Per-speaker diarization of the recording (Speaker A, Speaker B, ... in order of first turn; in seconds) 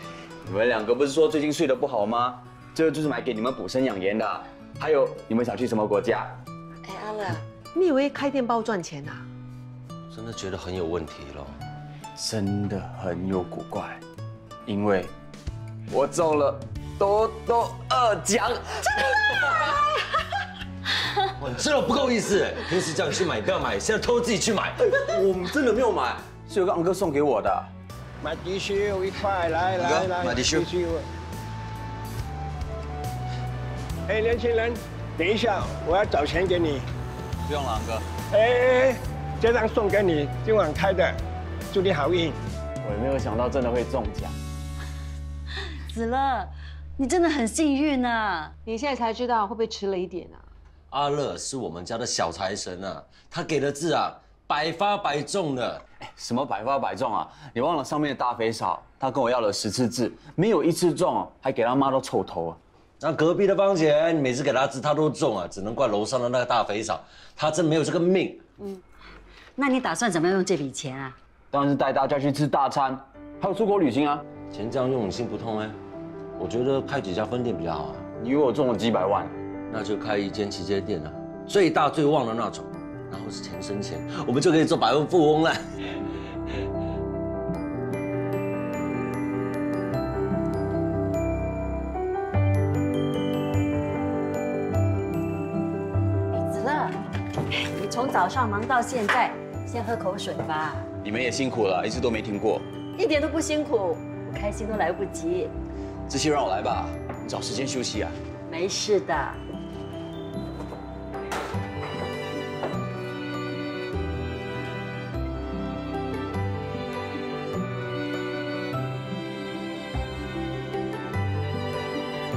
Speaker A: 0.5-6.4, 12.2-14.0, 14.7-15.1, 15.9-19.8, 25.0-27.7, 29.8-30.7, 37.5-38.1, 42.8-44.4, 56.0-62.6, 71.5-74.2, 78.2-79.4, 101.0-102.7, 106.1-108.2
Speaker B: 6.8-9.3, 48.6-50.5
Speaker C: 10.1-11.6, 21.4-25.0, 50.9-55.8, 63.0-68.4, 74.5-75.8, 76.4-78.1, 79.7-86.0
Speaker D: 28.2-31.1, 34.1-36.8, 38.3-41.2, 41.7-42.4
Speaker E: 45.9-48.5, 69.6-71.2, 96.3-97.0, 97.5-100.9, 103.0-105.5, 108.5-109.4